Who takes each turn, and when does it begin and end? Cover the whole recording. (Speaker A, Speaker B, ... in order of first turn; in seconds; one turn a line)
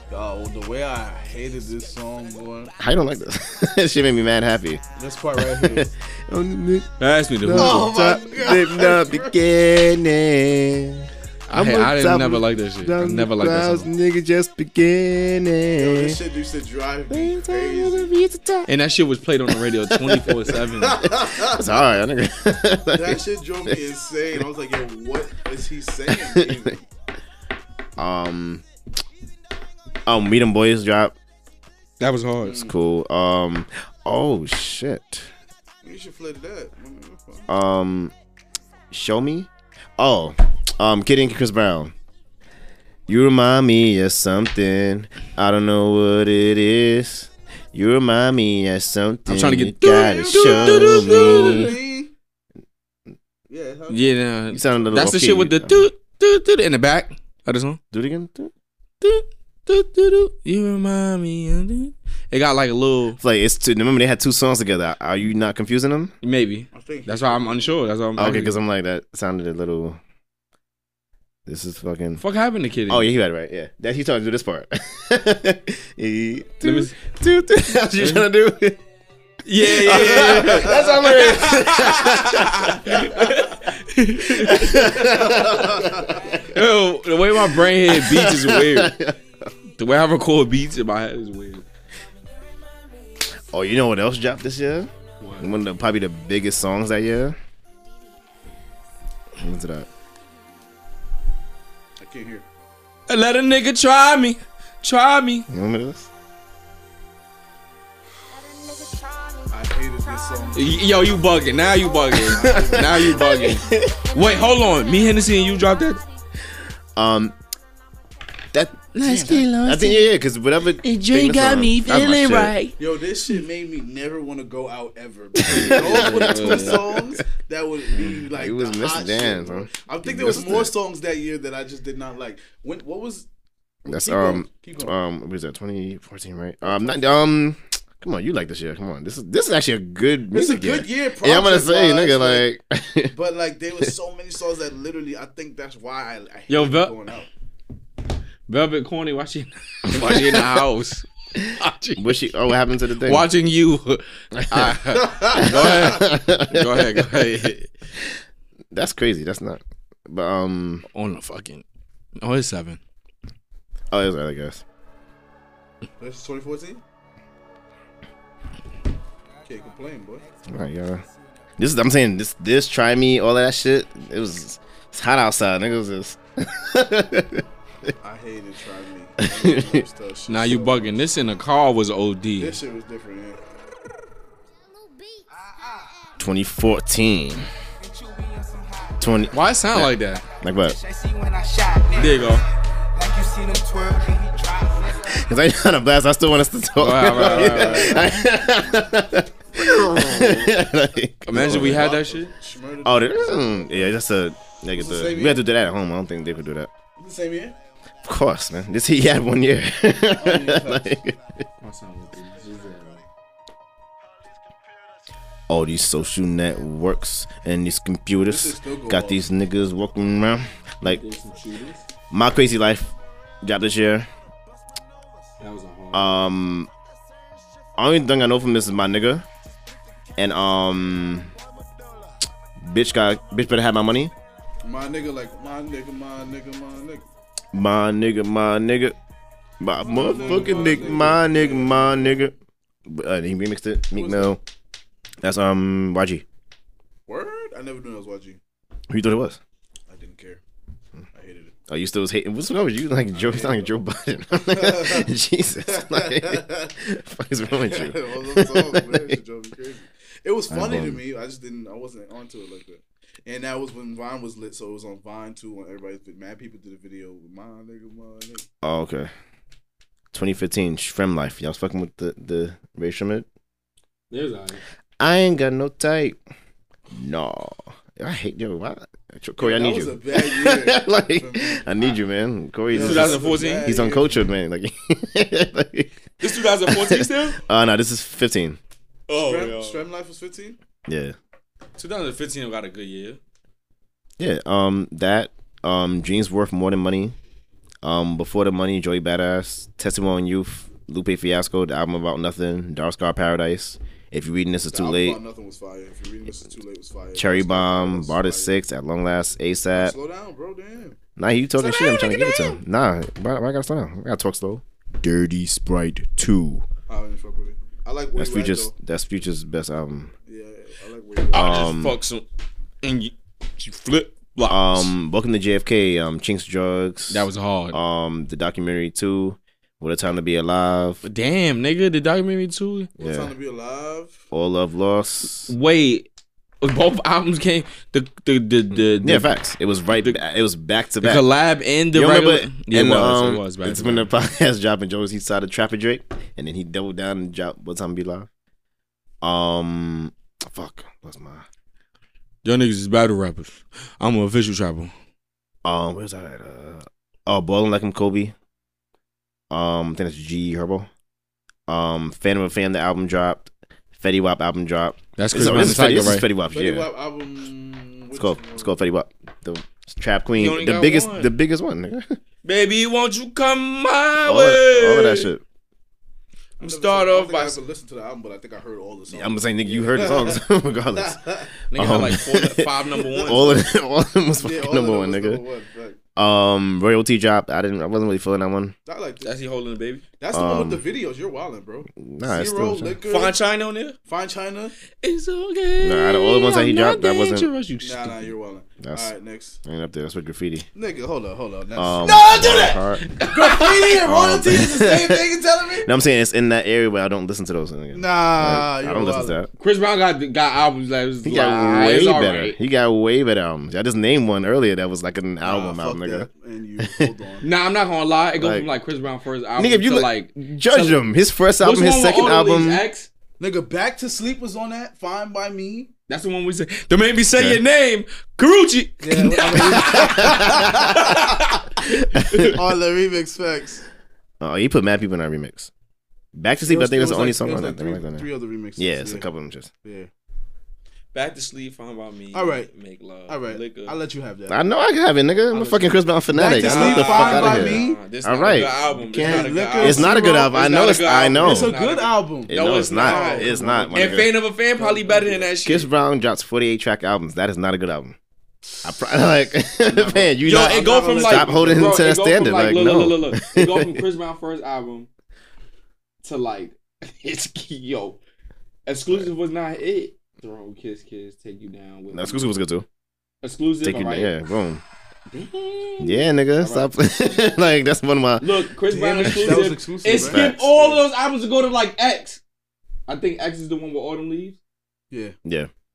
Speaker A: 0.1-2.7
Speaker B: 1.2-3.9
Speaker C: 2.8-4.8
Speaker A: 5.0-5.9
Speaker C: 5.4-16.2
Speaker D: 7.0-7.9
Speaker A: 7.5-9.4
Speaker D: 11.5-13.9
Speaker A: 15.8-18.1
Speaker C: 17.1-18.7
Speaker D: 18.7-21.1
Speaker C: 19.6-20.6
Speaker A: 20.8-21.7
Speaker C: 21.3-23.7
Speaker A: 22.9-26.8
Speaker C: 26.1-26.7
Speaker C: 28.0-28.6
Speaker C: 30.1-31.1
Speaker D: 32.0-32.6
Speaker A: 32.4-32.8
Speaker C: 32.6-35.3
Speaker A: 35.8-37.5
Speaker C: 37.5-38.1
Speaker C: 38.9-41.9
Speaker C: 43.1-51.8
Speaker D: 49.3-51.8
Speaker A: 49.9-52.1
Speaker A: 53.5-54.8
Speaker D: 53.9-57.8
Speaker C: 54.5-55.9
Speaker C: 57.9-58.5
Speaker D: 59.0-63.2
Speaker C: 63.2-66.2
Speaker D: 66.2-68.6
Speaker A: 66.7-67.8
Speaker C: 68.2-70.0
Speaker C: 71.5-72.2
Speaker D: 72.2-73.1
Speaker C: 72.9-78.8
Speaker D: 76.6-76.9
Speaker D: 78.0-78.3
Speaker D: 79.5-88.9
Speaker C: 79.6-83.5
Speaker C: 84.2-86.3
Speaker A: 85.2-86.2
Speaker B: 86.0-86.4
Speaker C: 87.3-89.2
Speaker D: 89.8-91.6
Speaker C: 93.5-97.4
Speaker D: 95.2-95.5
Speaker C: 99.4-99.9
Speaker A: 102.0-102.5
Speaker D: 103.1-105.5
Speaker C: 105.5-106.1
Speaker B: 108.7-109.4
Speaker A: 109.5-111.0
Speaker B: 110.1-112.8
Speaker D: 110.5-116.0
Speaker A: 112.0-113.2
Speaker C: 112.3-114.1
Speaker B: 114.4-114.7
Speaker C: 117.0-117.3
Speaker C: 118.5-122.6
Speaker D: 118.9-120.1
Speaker A: 119.0-119.4
Speaker D: 120.8-122.8
Speaker A: 122.8-133.3
Speaker C: 125.3-127.2
Speaker D: 125.5-126.8
Speaker C: 128.0-130.7
Speaker A: 133.8-135.0
Speaker C: 133.9-143.1
Speaker A: 136.6-137.0
Speaker A: 140.3-142.5
Speaker A: 143.1-147.3
Speaker D: 146.5-147.0
Speaker D: 148.5-152.3
Speaker C: 149.9-150.5
Speaker C: 152.0-153.3
Speaker D: 153.0-157.7
Speaker C: 154.3-157.3
Speaker A: 154.9-155.9
Speaker C: 158.0-160.8
Speaker D: 160.9-161.6
Speaker D: 162.2-162.8
Speaker C: 163.9-164.6
Speaker A: 166.0-166.8
Speaker B: 169.3-171.6
Speaker A: 169.5-170.2
Speaker C: 170.5-171.1
Speaker C: 171.6-177.9
Speaker A: 178.0-181.0
Speaker C: 179.2-179.8
Speaker D: 180.3-182.6
Speaker A: 182.4-183.4
Speaker B: 185.3-186.2
Speaker C: 186.2-187.5
Speaker B: 187.8-189.6
Speaker C: 189.0-190.8
Speaker D: 189.3-190.2
Speaker B: 190.3-195.3
Speaker D: 191.9-192.5
Speaker C: 195.1-201.9
Speaker D: 196.8-198.2
Speaker A: 197.1-198.3
Speaker D: 199.6-200.6
Speaker D: 201.2-202.3
Speaker A: 201.3-204.0
Speaker C: 202.8-206.7
Speaker A: 204.7-205.4
Speaker A: 207.0-207.6
Speaker C: 208.0-211.4
Speaker A: 210.1-211.0
Speaker D: 211.6-213.0
Speaker B: 212.3-213.0
Speaker B: 214.3-214.9
Speaker C: 215.5-221.0
Speaker B: 215.8-216.5
Speaker A: 218.3-219.2
Speaker D: 220.8-221.9
Speaker C: 222.1-224.1
Speaker B: 224.5-225.1
Speaker D: 225.4-226.2
Speaker C: 225.9-226.7
Speaker B: 227.4-228.4
Speaker C: 227.8-229.2
Speaker B: 230.2-232.2
Speaker C: 230.2-231.3
Speaker C: 232.6-234.1
Speaker A: 234.6-237.1
Speaker C: 237.5-239.0
Speaker C: 239.6-242.3
Speaker A: 239.8-242.2
Speaker D: 240.0-241.2
Speaker C: 242.9-244.4
Speaker A: 243.9-244.4
Speaker C: 245.2-246.2
Speaker A: 247.1-248.4
Speaker C: 248.9-249.4
Speaker A: 249.9-250.4
Speaker A: 251.1-251.6
Speaker C: 251.7-259.2
Speaker A: 253.2-253.8
Speaker A: 254.5-255.1
Speaker A: 255.7-256.7
Speaker A: 257.6-268.5
Speaker C: 260.5-261.0
Speaker C: 268.6-269.1
Speaker C: 270.1-273.3
Speaker D: 274.1-274.6
Speaker C: 275.0-276.2
Speaker C: 276.9-288.6
Speaker A: 279.4-282.0
Speaker A: 282.7-284.2
Speaker D: 282.7-283.7
Speaker D: 286.2-287.4
Speaker D: 289.1-289.9
Speaker A: 289.1-290.6
Speaker C: 290.9-291.2
Speaker D: 291.8-293.2
Speaker C: 294.2-297.2
Speaker C: 297.8-305.2
Speaker A: 304.7-308.6
Speaker C: 307.1-310.0
Speaker A: 309.7-311.0
Speaker C: 311.2-316.7
Speaker B: 311.6-312.5
Speaker A: 316.9-318.7
Speaker C: 318.1-320.1
Speaker A: 320.3-321.7
Speaker C: 321.3-322.0
Speaker D: 321.3-322.3
Speaker D: 322.8-324.9
Speaker C: 324.5-331.0
Speaker D: 327.1-327.8
Speaker D: 331.0-332.9
Speaker A: 333.0-334.2
Speaker C: 333.0-333.3
Speaker C: 334.3-335.5
Speaker D: 335.5-336.1
Speaker D: 336.6-339.3
Speaker C: 338.8-341.2
Speaker D: 341.0-344.1
Speaker C: 341.9-348.3
Speaker C: 349.2-351.5
Speaker D: 352.4-354.9
Speaker C: 355.6-358.3
Speaker C: 359.5-360.9
Speaker C: 361.7-366.9
Speaker D: 365.2-366.3
Speaker A: 366.5-368.8
Speaker C: 368.1-372.2
Speaker D: 370.4-371.3
Speaker D: 372.4-375.3
Speaker C: 374.2-375.4
Speaker A: 376.6-381.6
Speaker D: 376.6-377.6
Speaker C: 379.1-381.2
Speaker D: 381.7-383.6
Speaker C: 381.7-385.4
Speaker A: 383.0-383.4
Speaker A: 384.3-386.0
Speaker C: 386.2-388.8
Speaker A: 388.9-389.3
Speaker D: 389.2-390.1
Speaker A: 390.2-393.4
Speaker C: 390.3-390.8
Speaker C: 392.0-393.0
Speaker D: 393.1-394.0
Speaker A: 394.1-394.8
Speaker D: 395.0-398.3
Speaker C: 395.8-397.5
Speaker A: 397.8-399.6
Speaker C: 398.8-399.1
Speaker C: 399.6-400.7
Speaker A: 400.8-405.9
Speaker C: 401.8-405.3
Speaker C: 405.8-409.5
Speaker A: 407.9-409.4
Speaker D: 409.6-412.6
Speaker C: 411.2-416.3
Speaker A: 415.4-417.5
Speaker D: 417.4-421.0
Speaker C: 418.4-418.7
Speaker C: 419.6-422.9
Speaker D: 421.6-423.1
Speaker A: 423.4-425.9
Speaker D: 426.1-432.5
Speaker C: 427.3-427.6
Speaker A: 429.0-431.4
Speaker C: 429.9-430.8
Speaker C: 432.1-432.6
Speaker A: 432.4-433.9
Speaker C: 434.4-435.7
Speaker C: 436.4-439.7
Speaker A: 436.6-439.3
Speaker A: 439.8-440.1
Speaker D: 441.1-444.0
Speaker A: 442.3-442.7
Speaker A: 443.3-444.6
Speaker C: 444.5-451.8
Speaker D: 445.5-446.1
Speaker A: 446.3-448.0
Speaker D: 446.6-455.9
Speaker A: 449.1-450.5
Speaker A: 451.4-455.6
Speaker C: 452.5-454.3
Speaker C: 455.6-458.2
Speaker A: 458.6-462.1
Speaker C: 458.8-464.1
Speaker D: 460.4-465.1
Speaker D: 466.2-468.2
Speaker D: 468.9-472.5
Speaker C: 469.1-469.3
Speaker C: 472.1-472.9
Speaker D: 473.4-474.4
Speaker C: 473.8-474.8
Speaker D: 475.3-476.9
Speaker C: 476.0-478.6
Speaker D: 478.4-482.4
Speaker A: 478.9-481.0
Speaker C: 479.2-479.7
Speaker C: 480.2-480.7
Speaker D: 483.1-484.6
Speaker A: 485.1-485.4
Speaker C: 485.4-485.7